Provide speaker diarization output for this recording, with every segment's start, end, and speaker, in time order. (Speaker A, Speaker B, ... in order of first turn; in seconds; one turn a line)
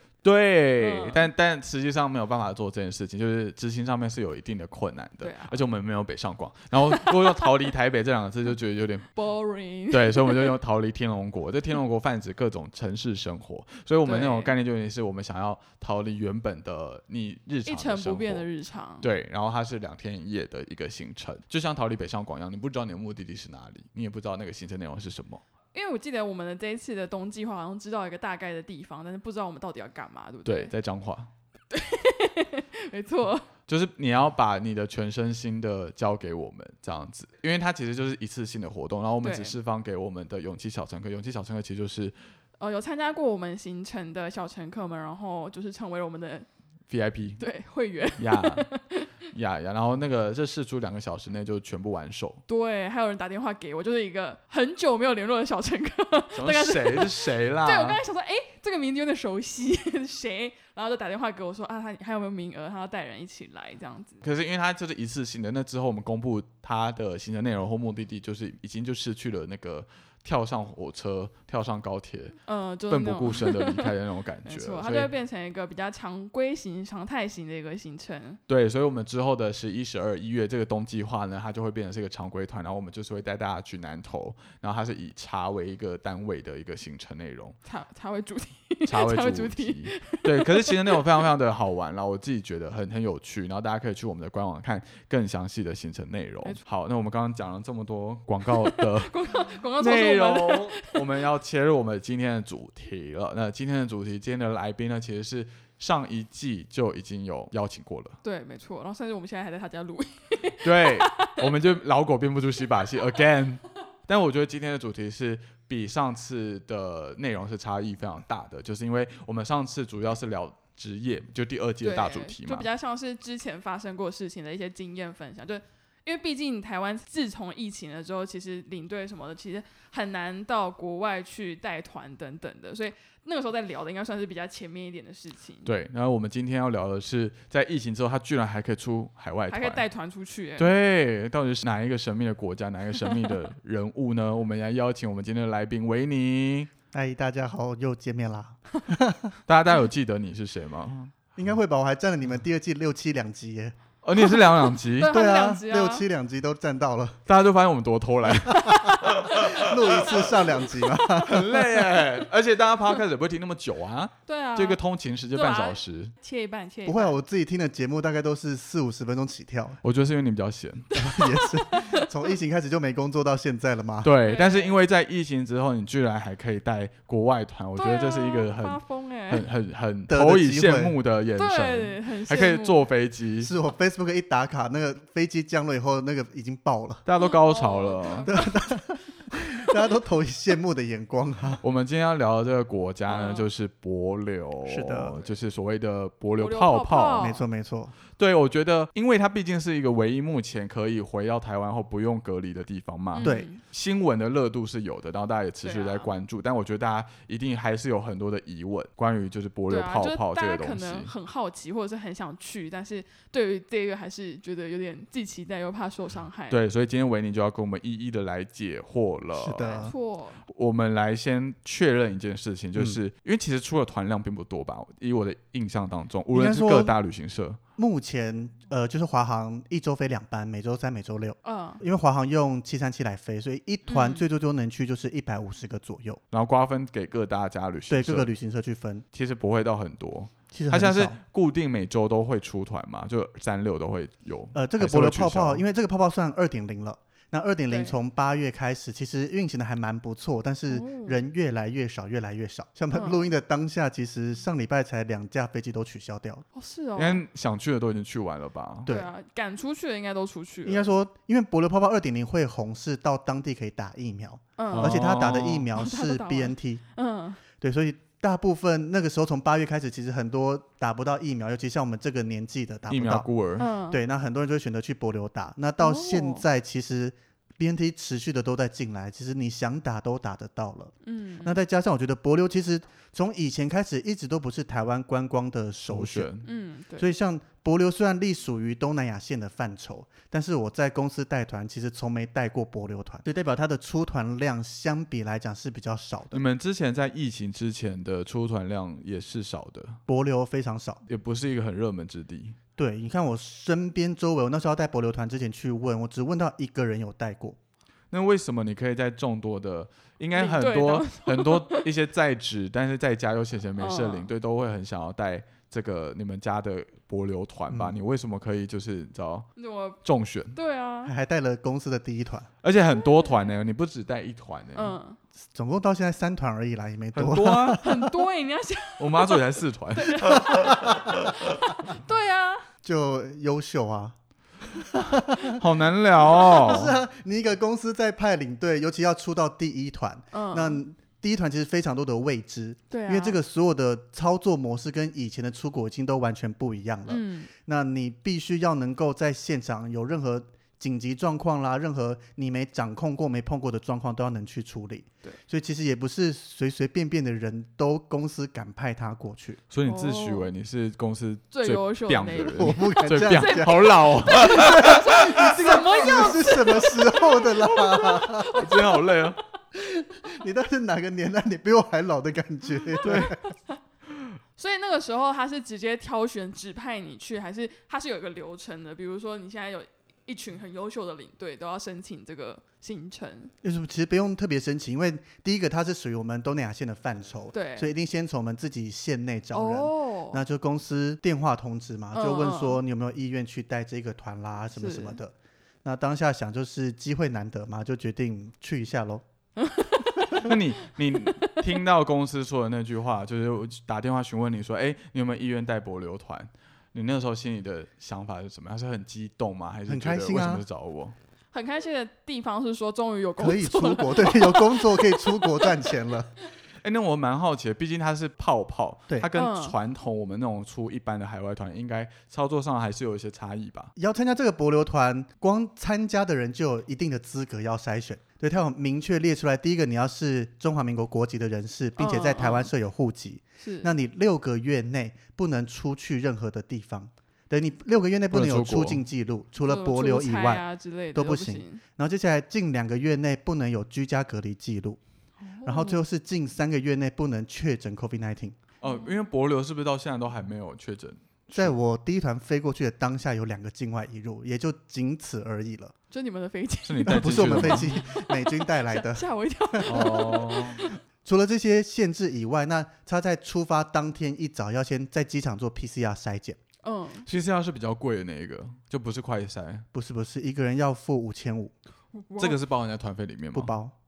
Speaker A: 0.2-9.1
Speaker B: 0.8-1.3
Speaker B: 5.2-5.6
Speaker B: 6.9-7.5
Speaker B: 9.2-10.6
Speaker A: 9.9-18.5
Speaker B: 14.1-14.5
Speaker B: 17.6-19.1
Speaker A: 19.0-25.4
Speaker B: 25.7-30.7
Speaker A: 30.5-31.3
Speaker B: 31.7-33.5
Speaker A: 33.7-42.2
Speaker B: 39.2-39.5
Speaker B: 42.6-46.5
Speaker A: 46.9-47.4
Speaker B: 47.4-49.1
Speaker A: 48.1-48.7
Speaker A: 49.3-52.4
Speaker B: 52.5-64.2
Speaker A: 56.3-58.0
Speaker A: 64.2-72.4
Speaker B: 72.5-73.9
Speaker A: 72.9-75.1
Speaker B: 74.5-78.4
Speaker A: 78.5-87.6
Speaker B: 87.7-91.0
Speaker A: 88.8-99.2
Speaker B: 98.5-101.2
Speaker A: 99.8-108.2
Speaker B: 108.2-111.5
Speaker A: 110.6-122.7
Speaker B: 121.8-135.7
Speaker A: 135.7-139.8
Speaker B: 139.5-140.7
Speaker A: 140.6-146.7
Speaker C: 146.9-149.3
Speaker A: 149.5-151.3
Speaker C: 151.4-153.8
Speaker A: 154.0-155.1
Speaker B: 154.9-156.1
Speaker C: 155.0-157.2
Speaker A: 157.3-160.4
Speaker B: 158.6-159.1
Speaker C: 159.3-161.5
Speaker A: 161.2-166.1
Speaker B: 164.3-164.8
Speaker B: 165.3-167.2
Speaker C: 166.9-169.8
Speaker A: 169.8-170.9
Speaker B: 170.9-172.1
Speaker C: 171.0-174.1
Speaker A: 174.0-183.5
Speaker B: 174.2-174.8
Speaker B: 177.8-179.4
Speaker C: 180.1-180.9
Speaker B: 181.4-182.8
Speaker C: 183.4-187.1
Speaker A: 187.1-188.3
Speaker B: 187.2-188.8
Speaker C: 188.3-191.6
Speaker B: 189.3-189.8
Speaker A: 191.6-197.3
Speaker B: 193.1-193.5
Speaker C: 194.7-195.2
Speaker B: 196.4-197.4
Speaker C: 197.2-197.9
Speaker A: 198.2-211.1
Speaker B: 203.1-203.6
Speaker C: 203.2-203.5
Speaker B: 205.6-206.1
Speaker B: 209.7-216.6
Speaker A: 216.5-219.9
Speaker C: 219.4-219.9
Speaker B: 219.5-220.4
Speaker A: 220.5-227.6
Speaker C: 226.3-226.9
Speaker C: 227.8-236.2
Speaker B: 231.4-231.8
Speaker B: 233.9-234.2
Speaker A: 236.3-238.3
Speaker C: 237.9-239.0
Speaker A: 239.1-245.6
Speaker C: 240.5-241.2
Speaker C: 244.6-256.4
Speaker B: 247.7-248.0
Speaker B: 250.7-251.2
Speaker B: 252.9-253.3
Speaker B: 256.5-257.2
Speaker A: 257.0-258.9
Speaker C: 258.9-259.1
Speaker B: 258.9-260.9
Speaker C: 260.6-266.8
Speaker B: 264.6-265.0
Speaker A: 264.7-265.7
Speaker B: 265.7-267.4
Speaker C: 267.6-273.3
Speaker A: 272.9-273.7
Speaker B: 273.6-274.0
Speaker C: 273.9-280.9
Speaker B: 275.8-276.4
Speaker B: 281.0-281.6
Speaker C: 281.4-286.3
Speaker A: 285.9-286.5
Speaker B: 286.4-287.1
Speaker C: 287.0-296.4
Speaker A: 296.3-300.0
Speaker C: 300.1-301.0
Speaker A: 301.1-302.6
Speaker C: 302.8-307.6
Speaker A: 308.1-319.5
Speaker B: 310.3-311.9
Speaker B: 313.8-314.3
Speaker C: 317.7-318.0
Speaker B: 319.6-320.0
Speaker A: 320.0-320.6
Speaker B: 320.5-321.1
Speaker C: 321.1-322.5
Speaker A: 322.6-325.0
Speaker B: 323.0-323.5
Speaker B: 324.8-325.2
Speaker C: 325.5-328.1
Speaker A: 327.1-327.8
Speaker B: 327.8-332.7
Speaker A: 329.0-331.4
Speaker C: 330.5-331.1
Speaker C: 332.8-334.2
Speaker C: 334.7-335.6
Speaker A: 335.6-337.0
Speaker C: 336.3-359.6
Speaker B: 340.3-340.8
Speaker B: 342.9-343.4
Speaker B: 347.1-347.5
Speaker A: 359.7-365.8
Speaker B: 359.9-360.5
Speaker B: 361.5-369.3
Speaker C: 362.5-368.7
Speaker A: 368.4-369.4
Speaker C: 369.8-373.4
Speaker A: 373.0-373.3
Speaker B: 373.0-373.8
Speaker B: 374.6-383.5
Speaker C: 383.6-399.2
Speaker B: 387.5-387.9
Speaker B: 389.5-390.4
Speaker B: 392.1-392.8
Speaker B: 394.8-395.2
Speaker B: 399.6-400.6
Speaker A: 400.4-411.2
Speaker C: 409.9-410.6
Speaker B: 411.5-416.0
Speaker C: 413.4-416.3
Speaker A: 416.8-423.9
Speaker B: 419.3-419.8
Speaker C: 424.0-445.0
Speaker B: 432.0-432.7
Speaker B: 433.6-433.9
Speaker A: 438.3-439.0
Speaker B: 439.6-441.8
Speaker B: 445.4-446.0
Speaker C: 445.6-448.6
Speaker A: 448.8-451.8
Speaker B: 448.8-449.1
Speaker C: 451.5-455.9
Speaker B: 456.1-461.0
Speaker A: 456.9-458.0
Speaker C: 457.0-460.1
Speaker A: 459.9-460.8
Speaker C: 461.2-466.6
Speaker B: 466.8-467.3
Speaker A: 467.3-469.9
Speaker C: 469.9-471.7
Speaker B: 472.1-472.6
Speaker A: 472.4-473.7
Speaker C: 473.5-473.9